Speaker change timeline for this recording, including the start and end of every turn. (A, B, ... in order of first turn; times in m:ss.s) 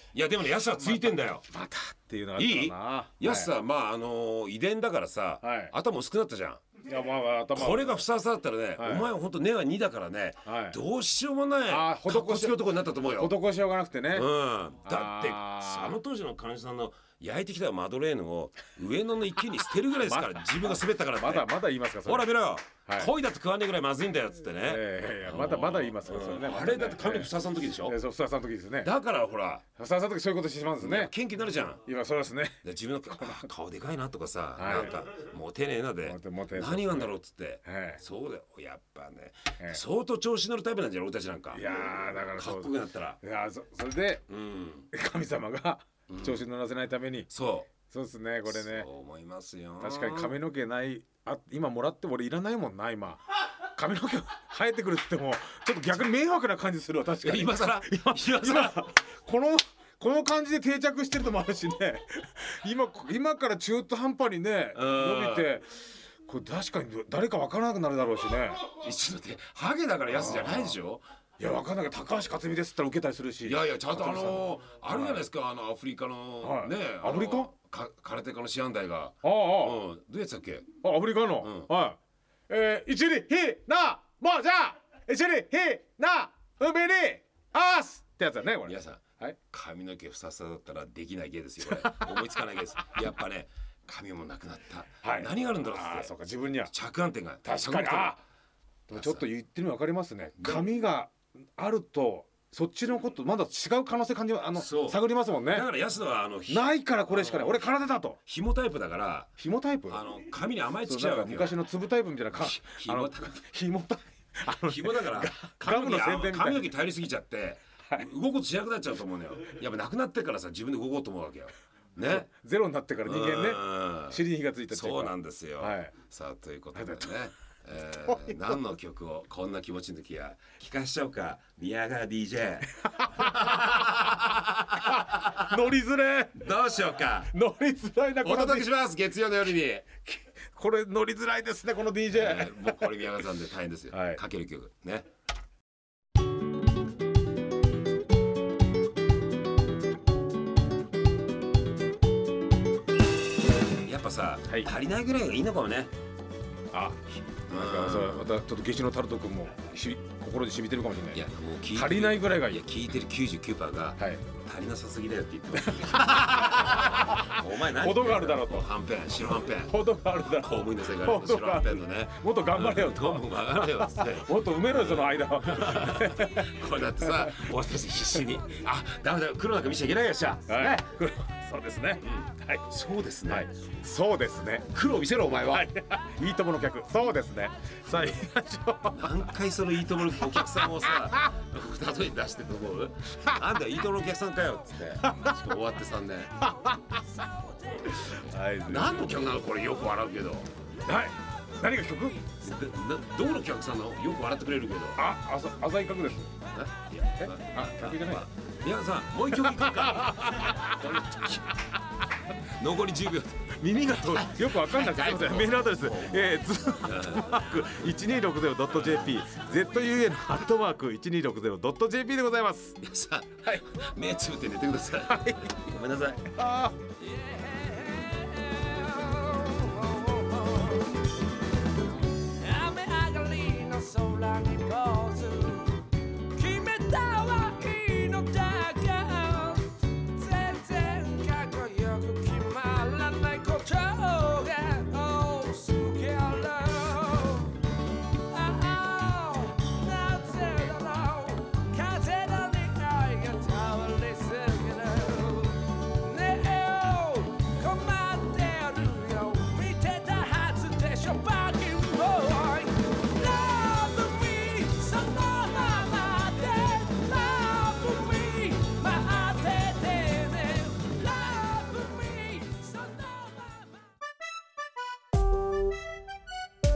0:00.1-0:01.4 A
0:00.8-0:03.5 B
0:02.4-0:06.6 A
0:05.4-0:05.7 B
0:06.8-0:08.0 B
0:07.5-0:13.4 A
0:08.8-0:09.1 B
0:10.4-0:10.8 B
0:11.7-0:14.3 B
0:14.1-0:28.0 A
0:14.8-0:16.0 B
0:20.0-0:22.3 B
0:22.9-0:23.1 B
0:24.6-0:27.3 B
0:27.8-0:28.9 B
0:28.8-0:29.6 A
0:29.8-0:31.1 B
0:30.8-0:31.8 A
0:31.8-0:32.6 B
0:32.6-0:43.2 A
0:34.6-0:35.0 B
0:36.0-0:37.1 B
0:37.6-0:38.0 B
0:41.5-0:44.2 B
0:44.3-0:44.9 A
0:44.9-0:47.3 B
0:46.1-0:46.4 A
0:47.3-0:47.7 A
0:47.8-0:48.9 B
0:48.5-0:50.4 A
0:49.8-1:05.7 B
0:57.2-0:58.9 A
1:04.7-1:05.5 A
1:06.3-1:08.7 B
1:08.6-1:11.0 A
1:10.1-1:10.8 B
1:11.4-1:15.2 B
1:13.4-1:20.7 A
1:16.4-1:17.5 B
1:19.2-1:19.8 B
1:20.8-1:22.0 B
1:21.4-1:21.7 A
1:22.5-1:29.4 B
1:28.6-1:36.1 A
1:31.6-1:32.3 B
1:35.0-1:36.7 B
1:36.7-1:38.2 A
1:37.4-1:38.2 B
1:38.9-1:45.7 B
1:38.9-1:39.2 A
1:40.4-1:40.7 A
1:44.5-1:47.6 A
1:46.5-1:48.2 B
1:48.3-1:49.3 A
1:49.4-1:50.0 B
1:49.9-1:51.6 A
1:50.8-1:56.6 B
1:52.3-1:53.4 A
1:54.5-2:02.3 A
2:02.0-2:06.0 B
2:03.0-2:15.4 A
2:06.8-2:07.1 B
2:08.1-2:08.3 B
2:12.8-2:13.7 B
2:14.8-2:16.4 B
2:16.4-2:17.3 A
2:17.3-2:18.7 B
2:18.2-2:19.9 A
2:20.1-2:23.0 B
2:22.1-2:25.1 A
2:23.9-2:24.2 B
2:33.8-2:35.9 A
2:36.7-2:42.6 B
2:37.5-2:38.3 A
2:41.1-3:00.9 A
2:44.0-2:44.2 B
2:45.6-2:48.7 B
2:49.6-2:53.2 B
2:53.9-2:57.5 B
3:00.5-3:02.7 B
3:02.0-3:03.5 A
3:03.3-3:04.7 B
3:04.7-3:05.7 A
3:05.5-3:09.1 B
3:08.9-3:16.4 A
3:10.9-3:11.2 B
3:15.0-3:15.4 B
3:16.4-3:16.8 B
3:17.9-3:19.2 B
3:18.6-3:20.5 A
3:20.9-3:22.2 B
3:22.4-3:25.0 A
3:25.0-3:26.3 B
3:26.5-3:31.4 A
3:27.4-3:28.3 B
3:29.4-3:31.2 B
3:32.6-3:37.7 A
3:34.0-3:42.8 B
3:38.7-3:39.7 A
3:42.8-3:46.3 A
3:45.1-3:45.6 B
3:46.3-3:46.8 B
3:47.5-3:51.0 C
3:52.4-4:07.6 C
4:08.3-4:33.7 C